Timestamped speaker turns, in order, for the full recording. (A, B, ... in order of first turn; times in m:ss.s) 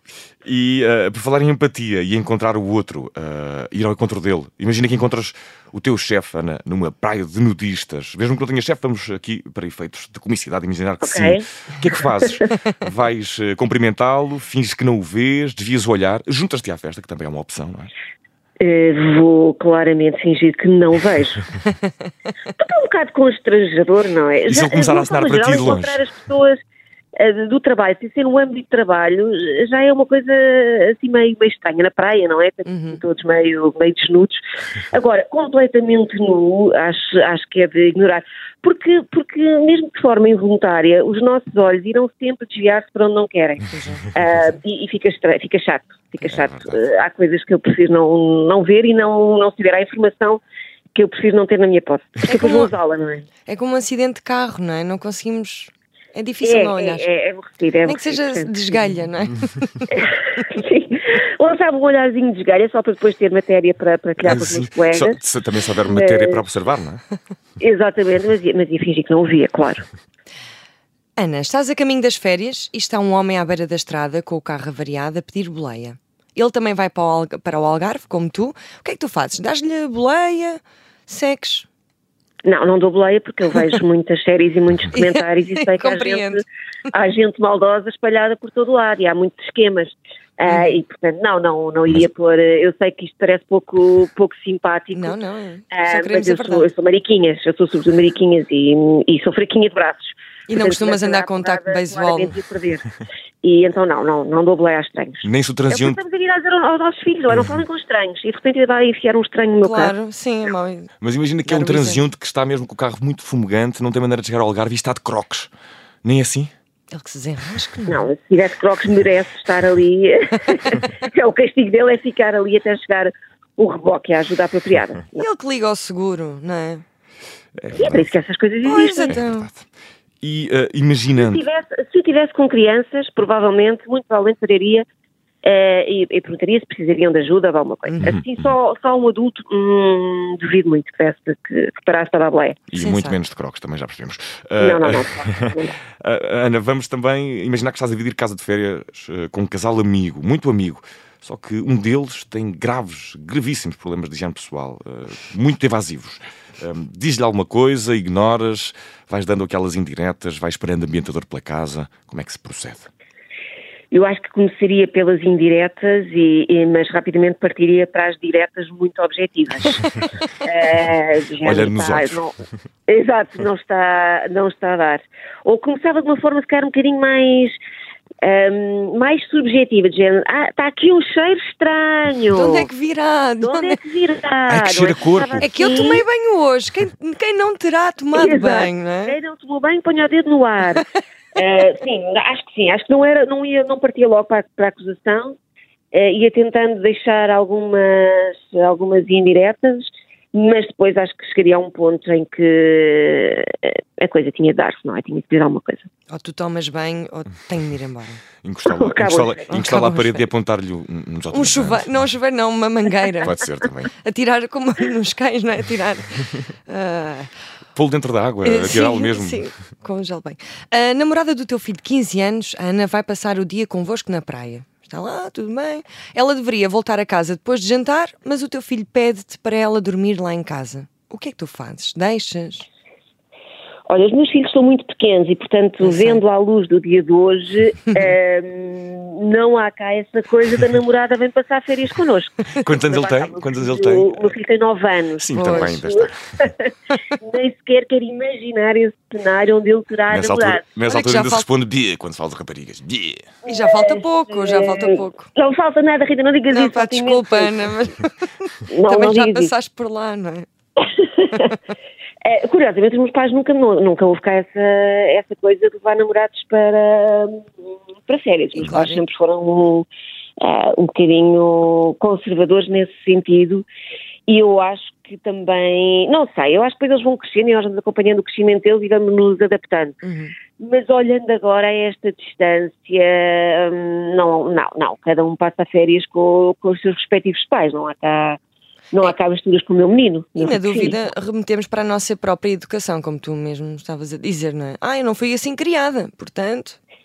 0:00.4-0:17.9 A
0:11.0-0:12.5 B
0:18.6-0:21.4 B
0:22.6-0:26.6 B
0:24.5-0:26.0 A
0:27.2-0:50.4 B
0:32.6-0:33.0 C
0:43.7-0:44.1 C
0:46.3-0:46.8 A
0:50.9-0:53.3 B
0:52.2-0:52.7 C
0:53.4-0:57.1 C
0:56.4-0:59.0 B
0:57.8-0:59.9 C
0:59.9-1:05.2 B
1:04.2-1:07.0 A
1:05.9-1:06.4 B
1:07.6-1:09.8 B
1:11.2-1:21.7 C
1:22.4-1:35.2 B
1:24.9-1:26.4 C
1:30.5-1:30.8 C
1:34.9-1:36.7 C
1:35.7-1:49.9 B
1:40.5-1:42.4 C
1:45.2-1:46.0 A
1:49.6-1:50.9 C
1:51.0-1:55.5 A
1:51.4-1:52.0 C
1:56.0-1:56.5 A
1:56.9-1:58.0 C
1:57.9-2:05.2 B
2:05.2-2:06.8 C
2:07.6-2:08.1 A
2:07.8-2:09.2 B
2:08.6-2:09.5 C
2:09.1-2:09.6 A
2:10.2-2:11.4 A
2:11.1-2:14.8 B
2:15.4-2:22.6 B
2:17.8-2:18.1 C
2:18.0-2:18.5 A
2:22.7-2:25.5 A
2:22.7-2:23.2 C
2:24.6-2:25.8 B
2:26.0-2:42.9 A
2:43.9-2:49.8 B
2:50.4-2:52.3 B
2:51.4-2:52.2 A
2:52.9-2:57.6 B
2:58.2-3:02.7 B
3:02.3-3:03.8 C
3:03.4-3:06.0 B
3:04.5-3:05.5 A
3:05.4-3:09.2 C
3:08.1-3:15.4 B
3:15.9-3:25.9 B
3:26.1-3:28.2 C
3:28.4-3:31.9 A
3:28.7-3:29.5 B
3:29.5-3:30.2 C
3:31.3-3:33.4 C
3:33.2-3:33.9 A
3:34.0-3:37.3 C
3:37.7-3:39.4 A
3:38.4-3:52.7 C
3:53.9-4:10.7 B
3:55.8-3:56.2 C
4:02.6-4:04.3 A
4:05.2-4:06.2 A
4:05.3-4:05.8 C
4:10.1-4:13.3 A
4:10.8-4:11.5 C
4:13.4-4:17.7 B
4:13.4-4:15.3 C
4:16.5-4:20.5 C
4:18.7-4:19.5 B
4:20.8-4:21.5 B
4:22.2-4:27.5 B
4:28.0-4:29.9 B
4:28.5-4:29.0 C
4:30.4-4:33.6 B
4:34.3-4:40.0 B
4:40.0-4:40.4 C
4:40.6-4:48.4 B
4:48.9-4:51.0 B
4:50.4-4:56.8 C